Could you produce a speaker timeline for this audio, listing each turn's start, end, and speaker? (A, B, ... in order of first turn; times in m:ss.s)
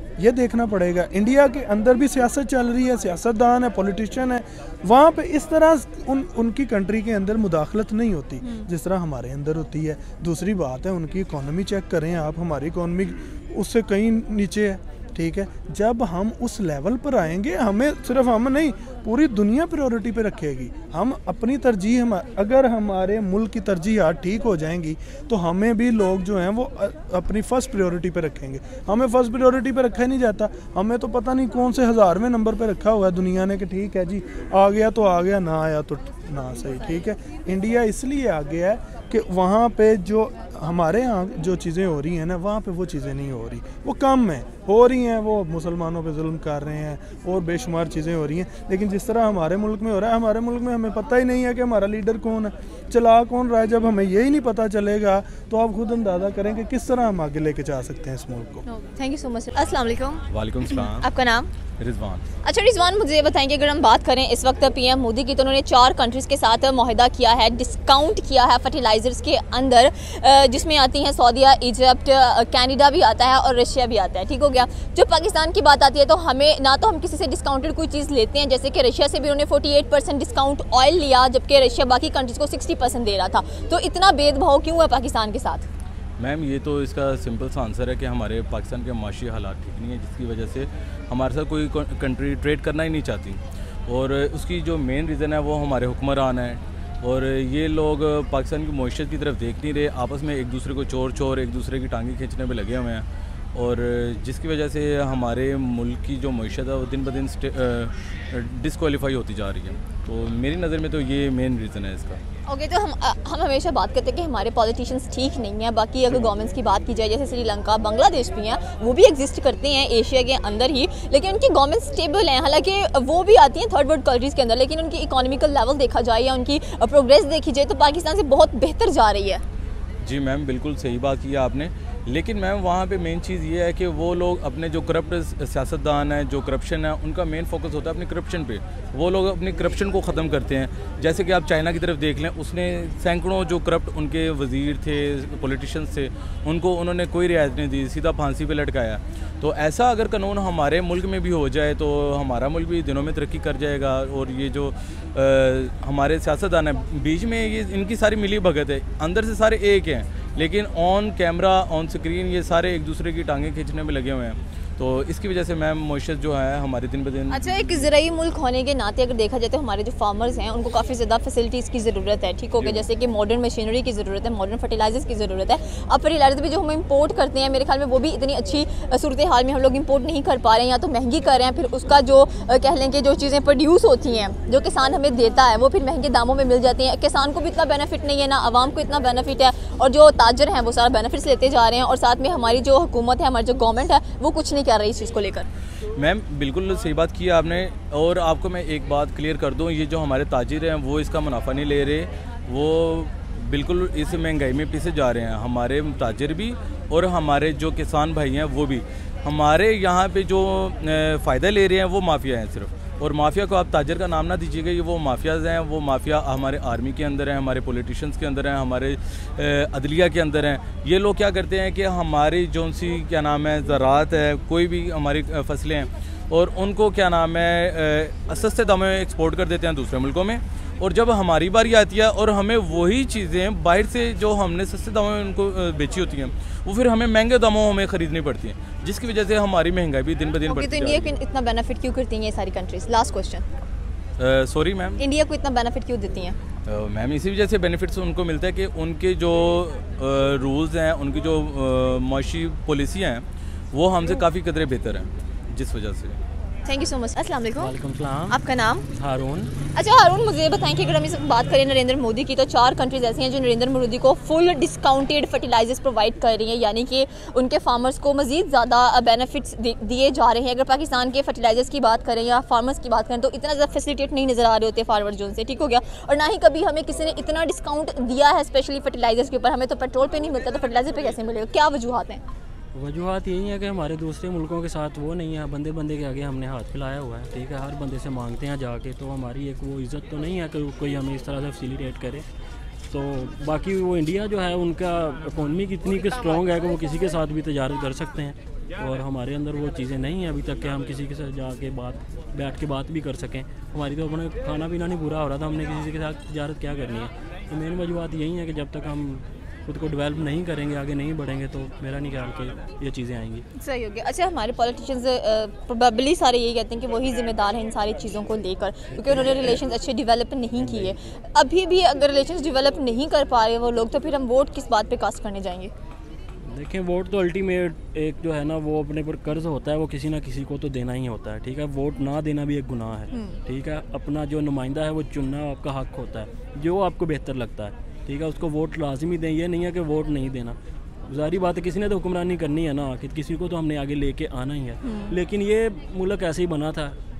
0:00.2-0:58.6 A
0:58.6-1:00.2 B
1:00.3-1:01.1 C
1:00.8-1:01.5 B
1:01.8-1:02.2 C
1:02.4-1:25.7 B
1:26.2-1:52.2 C
1:52.4-2:09.4 B
2:10.0-2:47.9 C
2:47.3-3:15.5 B
2:52.6-2:52.8 C
3:16.0-4:01.1 C
4:00.4-4:03.4 B
4:04.2-4:05.0 C
4:05.0-4:06.4 B
4:06.6-4:16.2 C
4:16.6-4:17.7 B
4:17.6-4:18.4 D
4:18.3-4:18.9 B
4:18.9-4:19.5 D
4:19.7-4:42.2 B
4:42.7-4:52.3 D
4:52.9-5:13.4 D
5:13.6-5:25.7 B
5:20.6-5:21.1 D
5:26.4-5:47.0 D
5:33.1-5:33.4 B
5:44.8-5:45.2 B